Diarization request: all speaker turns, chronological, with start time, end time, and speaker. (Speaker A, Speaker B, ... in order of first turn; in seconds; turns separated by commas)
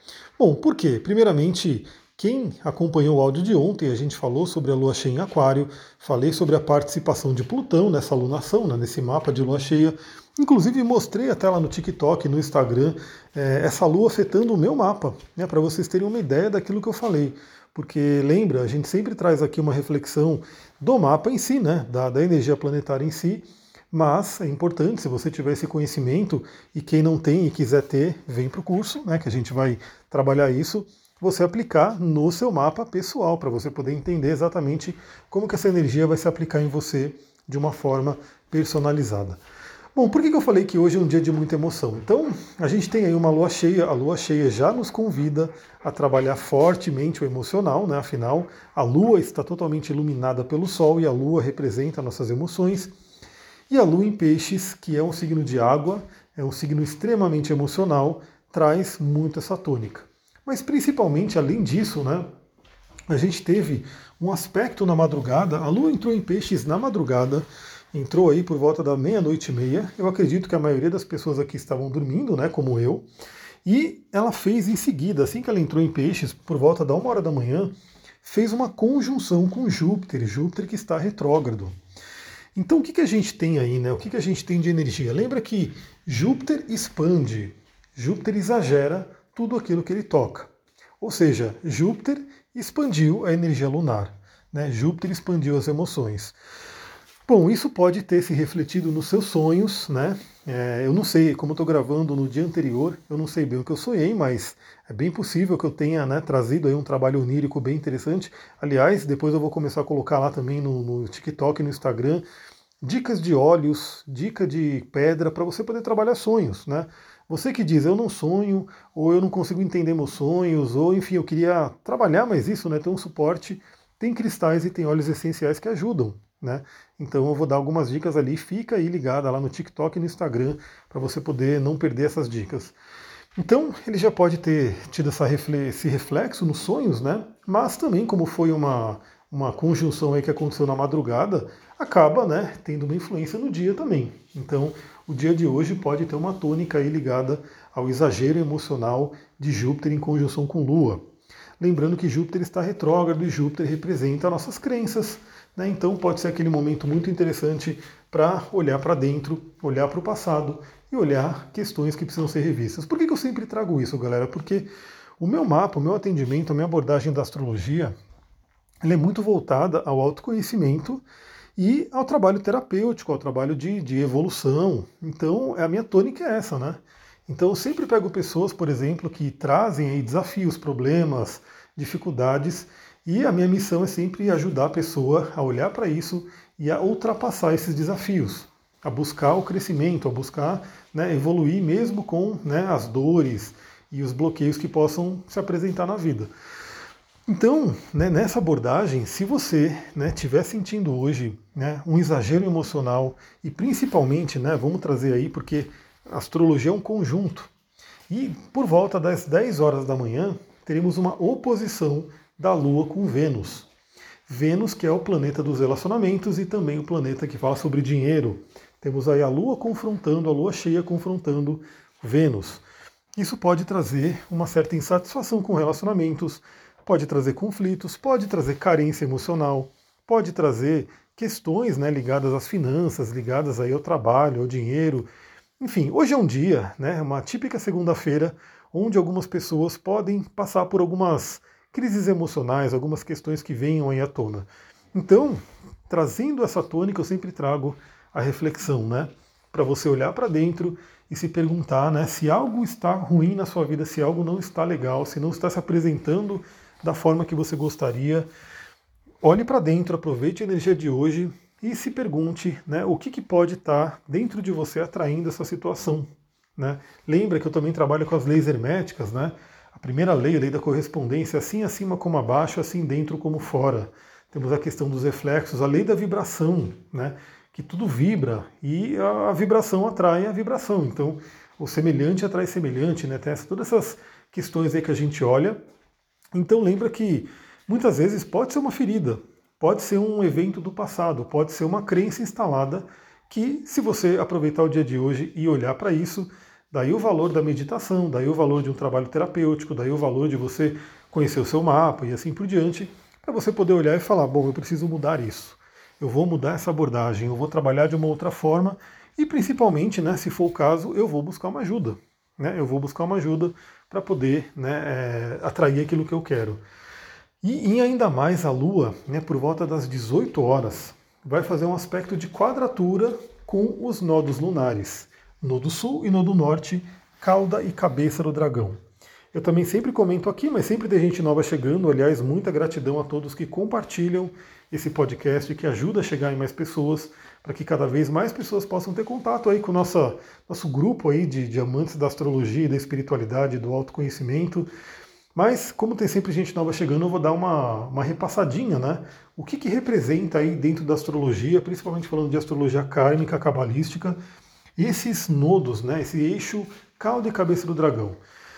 Speaker A: 0.4-39.4, Speaker A: 39.9-52.9, Speaker A: 53.7-62.3, Speaker A: 63.1-73.0, Speaker A: 73.6-81.7, Speaker A: 82.5-96.3, Speaker A: 97.2-112.2, Speaker A: 112.8-132.7, Speaker A: 133.4-151.0, Speaker A: 151.6-164.7, Speaker A: 165.2-167.9, Speaker A: 168.8-171.0, Speaker A: 171.6-196.3, Speaker A: 197.3-207.5, Speaker A: 208.1-213.7, Speaker A: 214.3-222.6, Speaker A: 223.2-235.1, Speaker A: 235.6-258.3, Speaker A: 259.2-285.6, Speaker A: 286.3-316.6, Speaker A: 317.4-328.8, Speaker A: 329.3-344.7, Speaker A: 345.3-354.2, Speaker A: 354.8-358.2